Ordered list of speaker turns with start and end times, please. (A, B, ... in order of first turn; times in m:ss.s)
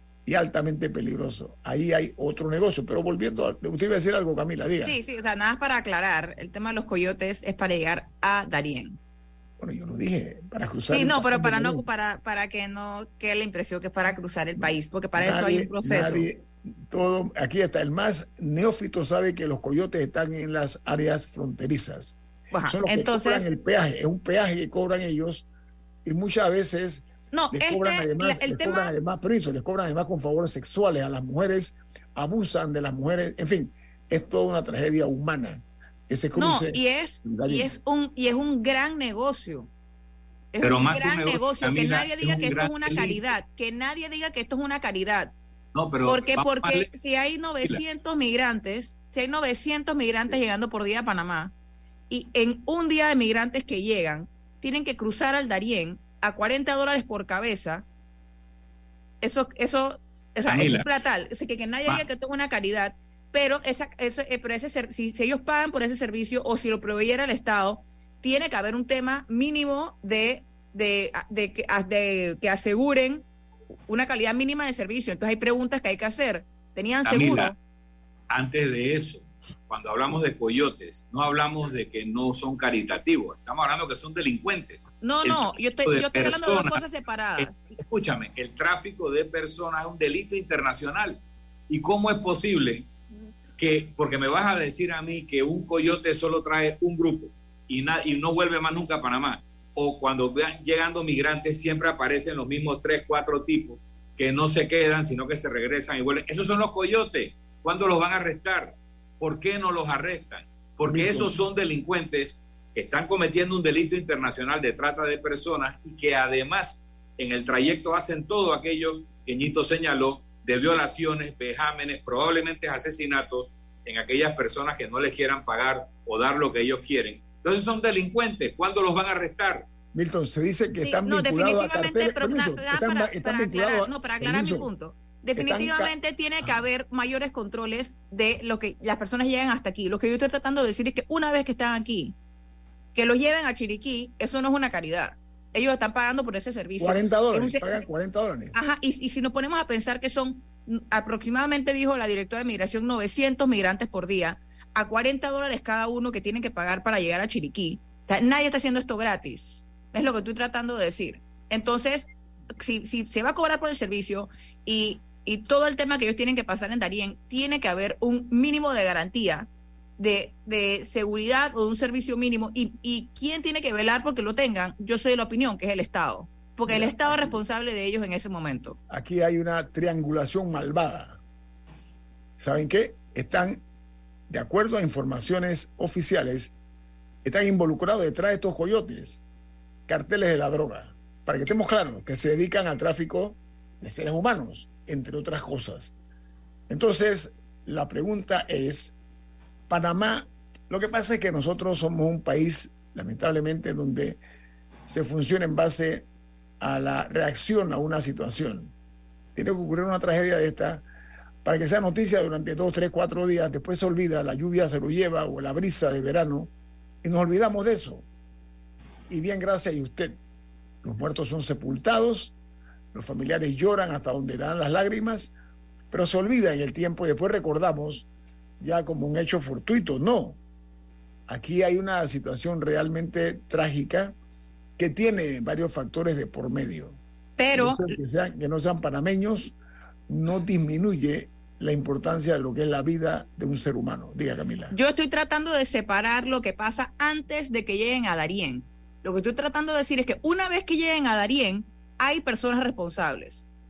0:00.2-0:05.0 A
0:04.8-0:09.0 B
0:09.6-0:11.8 A
0:10.9-0:16.3 B
0:14.6-0:25.5 A
0:22.5-0:23.5 B
0:26.0-0:37.8 A
0:27.3-0:28.9 B
0:36.3-0:39.7 B
0:40.5-0:45.3 B
0:40.6-0:43.2 C
0:45.7-0:46.9 C
0:46.0-0:51.5 B
0:52.1-0:57.8 B
0:59.2-1:13.2 B
1:00.5-1:00.8 C
1:13.9-1:17.6 B
1:17.0-1:17.5 C
1:18.3-1:26.8 C
1:25.0-1:27.8 B
1:27.4-1:32.9 C
1:33.6-2:09.7 C
1:50.8-1:51.4 A
2:09.9-2:14.7 A
2:10.8-2:22.2 B
2:15.4-2:16.6 A
2:22.9-2:27.8 B
2:26.8-2:28.6 A
2:28.5-2:58.8 B
2:56.6-2:57.4 A
2:58.9-3:01.2 A
3:02.4-3:03.6 A
3:04.3-3:06.5 A
3:07.2-3:09.2 A
3:09.9-3:15.9 A
3:16.7-3:18.9 A
3:19.7-3:24.2 A
3:24.9-3:26.1 A
3:26.6-3:28.7 A
3:29.3-3:30.8 A
3:31.4-3:36.5 A
3:37.0-3:38.0 A
3:39.1-3:40.2 A
3:40.8-3:42.3 A
3:42.9-3:45.3 A
3:45.9-3:48.1 A
3:48.6-3:50.4 A
3:51.3-3:54.1 A
3:54.8-3:57.0 A
3:57.4-3:57.9 B
3:57.5-3:59.5 A
4:00.1-4:04.7 A
4:04.7-4:13.4 B